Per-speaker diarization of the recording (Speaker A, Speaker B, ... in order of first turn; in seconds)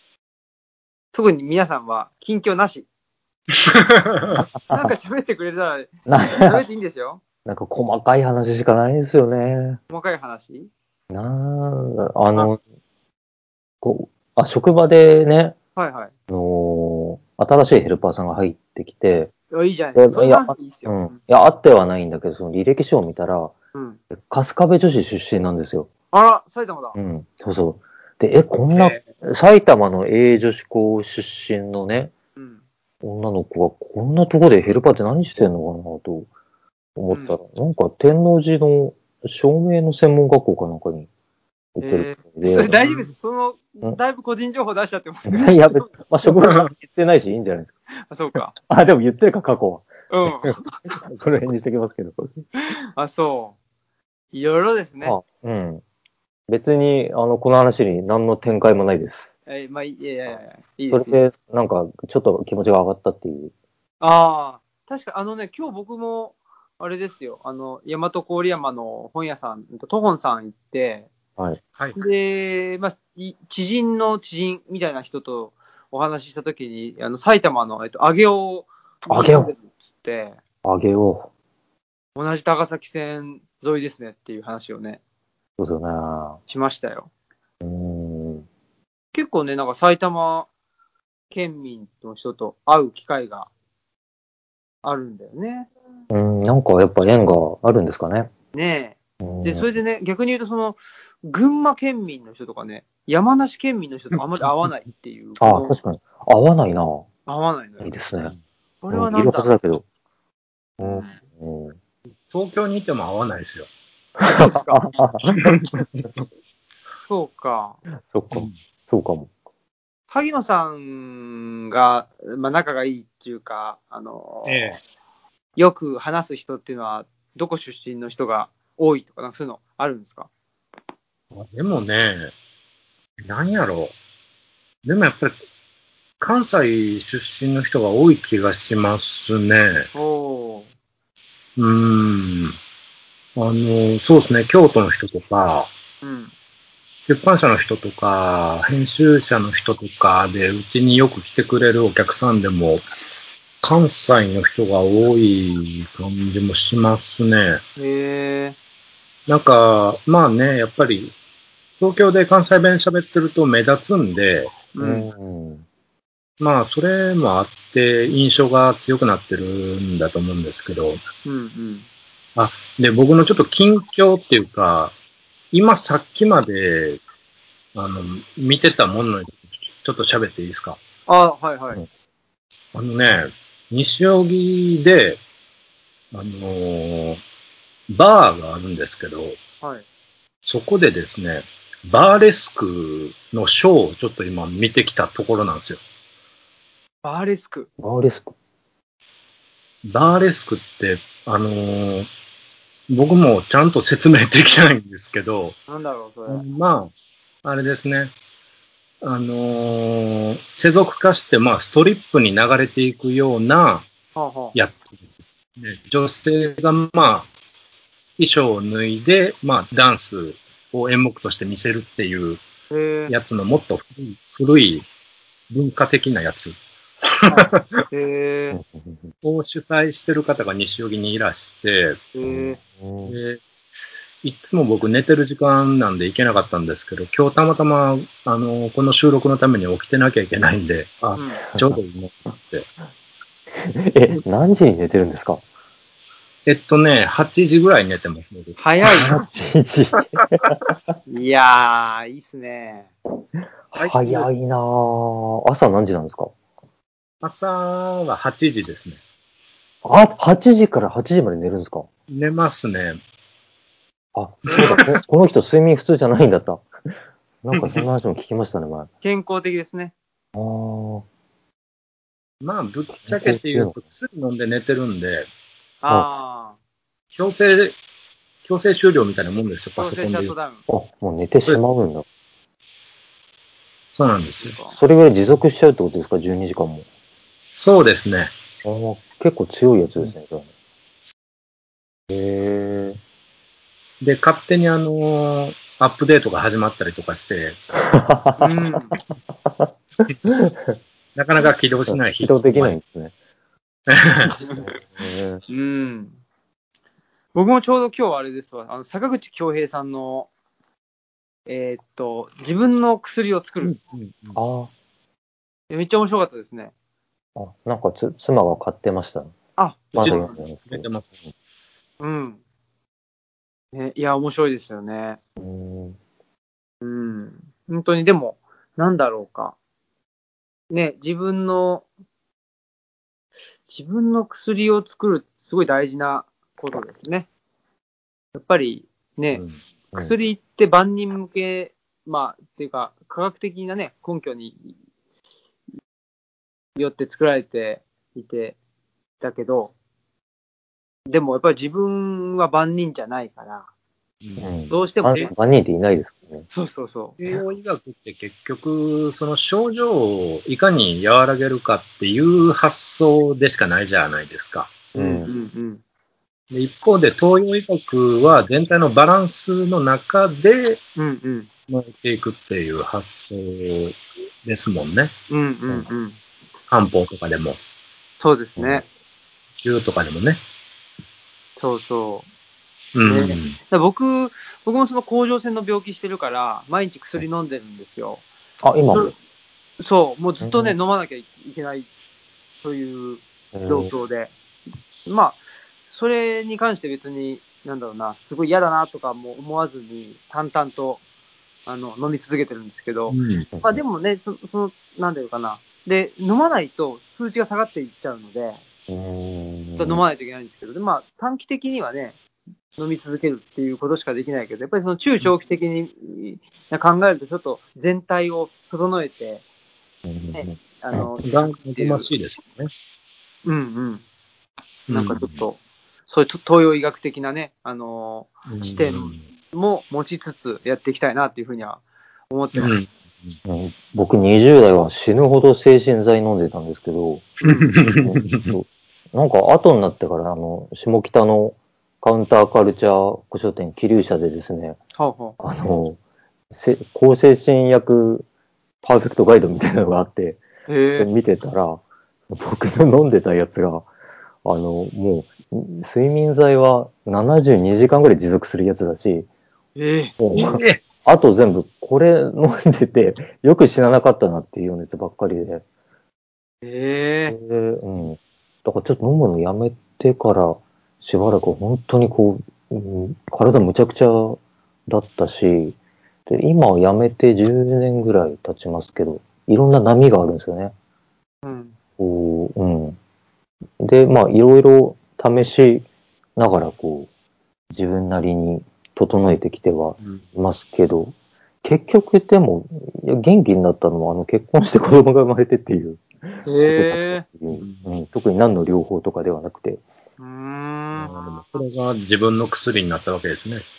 Speaker A: 1.1-2.9, 4.7-7.2, 9.9-10.7, 15.8-16.1, 19.5-21.2, 23.7-24.0, 26.1-26.9, 28.7-29.0, 32.4-32.6, 37.1-37.4, 41.8-46.3, 48.0-48.5, 50.1-50.8, 52.6-53.5, 54.3-55.2, 59.5-61.2, 64.0-71.1, 71.9-80.4, 82.1-85.0, 86.5-87.1, 89.1-90.5, 91.3-93.5, 94.8-95.7, 98.5-105.8, 107.3-107.9, 108.8-109.5, 110.8-111.1, 114.2-114.8, 116.9-117.8, 120.1-124.8, 125.6-130.3, 139.9-140.7, 146.0-146.3, 157.8-158.6, 164.7-165.1, 171.2-171.9, 181.1-181.8, 197.0-197.7, 205.7-206.4, 214.2-214.6, 222.7-223.1, 227.3-228.6, 232.1-232.6, 248.6-249.2, 251.1-252.9, 269.0-269.9, 275.8-276.6, 279.8-280.6, 284.4-284.8, 298.4-299.0, 305.5-306.1, 307.3-310.3, 311.5-313.7, 315.7-316.7, 319.6-320.4, 322.0-322.4, 323.7-325.2, 326.8-329.6, 330.7-331.9, 333.7-337.3, 338.3-344.7, 346.8-348.6, 349.2-349.7, 351.1-353.7, 354.7-355.3, 356.5-357.2, 364.9-365.8, 370.9-371.5, 375.3-376.2, 378.2-378.8, 381.6-382.2, 383.0-388.2, 389.8-391.9, 392.6-394.3, 395.1-395.4, 395.9-401.0, 401.6-408.6, 409.8-412.2, 412.8-419.4, 420.3-422.1, 423.4-424.0, 424.9-432.7, 437.4-437.7, 445.0-445.4, 450.7-451.1, 459.8-460.1, 466.6-467.4, 481.4-481.8, 496.4-497.2, 500.2-501.6
Speaker B: 3.7-4.4, 112.3-113.7, 115.4-116.0, 118.3-118.6, 124.5-124.8, 131.3-132.3, 133.2-133.9, 134.8-135.3, 136.2-139.9, 141.6-142.6, 143.3-145.7, 147.1-152.8, 153.6-157.6, 159.3-161.1, 161.8-164.6, 166.4-171.0, 172.3-174.9, 175.5-177.0, 177.7-180.8, 182.7-185.2, 186.1-187.2, 187.9-189.4, 190.4-195.8, 199.8-202.1, 202.9-205.6, 206.3-206.9, 207.4-208.1, 209.0-213.9, 214.5-217.3, 218.2-222.4, 223.1-224.8, 225.5-227.8, 229.2-232.1, 233.1-233.4, 234.2-242.7, 246.4-249.0, 253.7-254.3, 257.2-259.0, 262.1-263.0, 264.5-264.8, 267.5-267.8, 272.4-275.3, 277.1-277.8, 278.4-280.3, 283.9-284.5, 287.5-288.3, 294.0-297.6, 301.1-302.8, 303.9-304.4, 313.6-314.4, 320.0-321.1, 339.3-339.6, 354.2-354.5, 357.2-364.8, 366.5-370.8, 371.7-375.1, 376.7-377.6, 379.6-380.4, 382.9-383.6, 403.1-403.4, 421.2-422.7, 424.9-425.4, 428.5-429.2, 432.6-433.4, 437.4-438.5, 460.3-460.8, 497.5-497.9, 500.9-503.6
Speaker C: 4.3-4.9, 6.1-6.6, 7.4-9.8, 11.1-12.6, 13.8-15.6, 16.3-19.3, 19.9-23.5, 24.1-25.9, 26.9-32.1, 33.0-36.3, 37.0-41.1, 41.8-42.7, 45.3-47.7, 48.4-52.4, 55.0-55.8, 56.5-59.3, 60.9-63.5, 79.1-79.5, 80.6-81.3, 85.6-86.4, 87.6-88.5, 96.1-98.3, 99.2-99.7, 105.4-107.1, 107.8-108.3, 108.9-109.8, 110.8-111.8, 114.2-115.6, 118.1-119.3, 164.8-165.6, 197.8-198.3, 228.5-229.1, 232.2-233.2, 241.5-241.8, 243.5-245.4, 248.9-250.5, 253.7-256.3, 259.8-261.9, 264.1-266.6, 267.4-268.9, 270.3-271.0, 273.1-273.7, 280.7-282.1, 284.7-286.9, 288.6-290.5, 292.1-293.0, 297.7-299.7, 300.2-300.8, 301.9-303.1, 304.6-305.4, 314.3-314.7, 317.4-319.3, 319.9-320.9, 325.4-326.0, 354.4-356.5, 364.9-365.3, 378.6-378.8, 388.6-389.1, 390.4-390.8, 393.5-393.9, 403.5-403.8, 408.9-410.0, 420.0-421.1, 433.4-444.8, 445.4-446.0, 446.5-448.2, 448.8-450.4, 451.0-453.9, 454.4-459.3, 460.2-465.6, 467.3-475.8, 476.3-480.7, 482.0-483.0, 483.8-487.1, 487.7-499.8